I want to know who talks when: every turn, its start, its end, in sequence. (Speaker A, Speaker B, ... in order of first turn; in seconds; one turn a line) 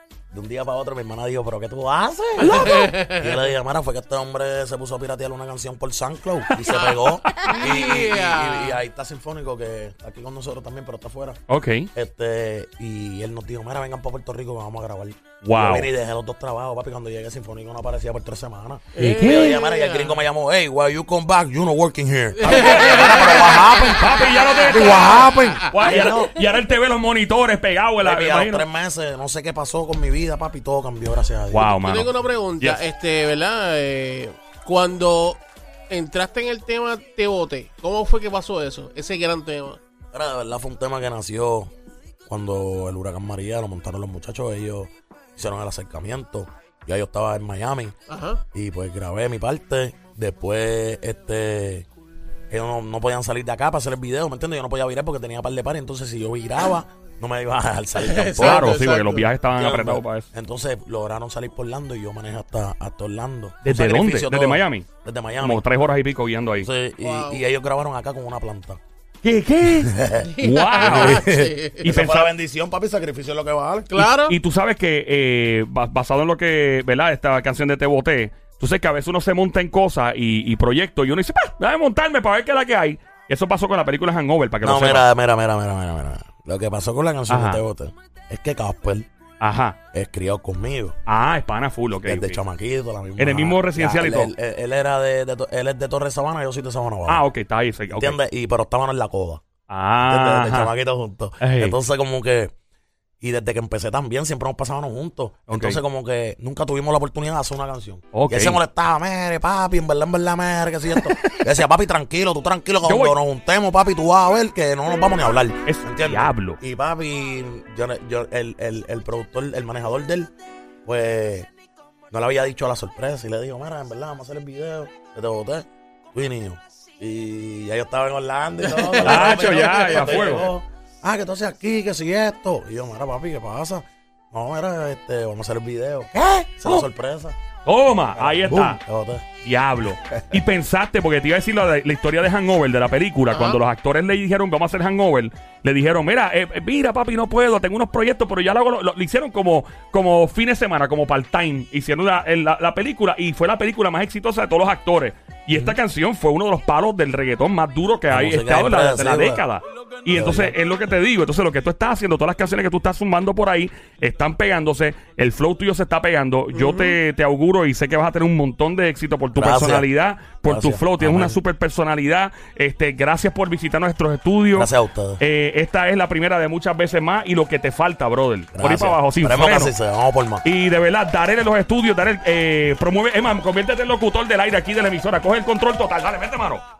Speaker A: 0.3-11.4
Speaker B: 2.4-2.9
Speaker C: 2.4-3.4
Speaker C: 6.7-8.8
Speaker B: 7.2-7.6
Speaker B: 11.5-11.9
Speaker A: 11.9-26.3
Speaker B: 15.4-15.9
Speaker C: 18.9-20.2
Speaker B: 19.0-19.6
Speaker C: 22.4-23.7
Speaker B: 22.4-28.6
Speaker C: 25.8-26.2
Speaker A: 28.0-31.7
Speaker B: 31.5-32.8
Speaker C: 31.7-39.8
Speaker A: 40.1-41.7
Speaker A: 42.3-47.9
Speaker C: 48.1-48.4
Speaker A: 48.5-51.9
Speaker A: 52.5-58.7
Speaker C: 58.0-59.3
Speaker B: 58.4-60.3
Speaker A: 59.5-65.6
Speaker B: 63.6-64.8
Speaker B: 65.4-66.7
Speaker A: 66.6-68.8
Speaker C: 67.0-67.4
Speaker B: 69.2-72.3
Speaker A: 69.8-73.9
Speaker C: 70.2-71.9
Speaker C: 73.9-74.4
Speaker B: 73.9-85.1
Speaker A: 84.6-89.1
Speaker B: 87.3-87.6
Speaker B: 89.4-89.8
Speaker A: 89.9-91.0
Speaker B: 91.1-92.4
Speaker A: 92.0-97.2
Speaker B: 93.2-94.3
Speaker B: 97.1-98.2
Speaker A: 97.9-99.4
Speaker B: 99.7-100.7
Speaker A: 100.0-102.5
Speaker B: 101.4-101.8
Speaker A: 103.2-120.3
Speaker B: 105.5-105.8
Speaker B: 108.1-108.6
Speaker B: 112.8-113.1
Speaker B: 115.6-116.6
Speaker A: 120.8-121.5
Speaker A: 122.1-137.3
Speaker C: 128.8-130.0
Speaker B: 129.0-130.5
Speaker B: 136.2-136.9
Speaker B: 137.6-138.8
Speaker A: 138.2-139.2
Speaker B: 139.4-179.7
Speaker C: 143.3-143.6
Speaker A: 158.1-159.4
Speaker A: 160.1-160.6
Speaker A: 169.3-169.9
Speaker A: 170.4-171.4
Speaker A: 174.5-175.2
Speaker A: 178.5-180.4
Speaker B: 180.4-186.6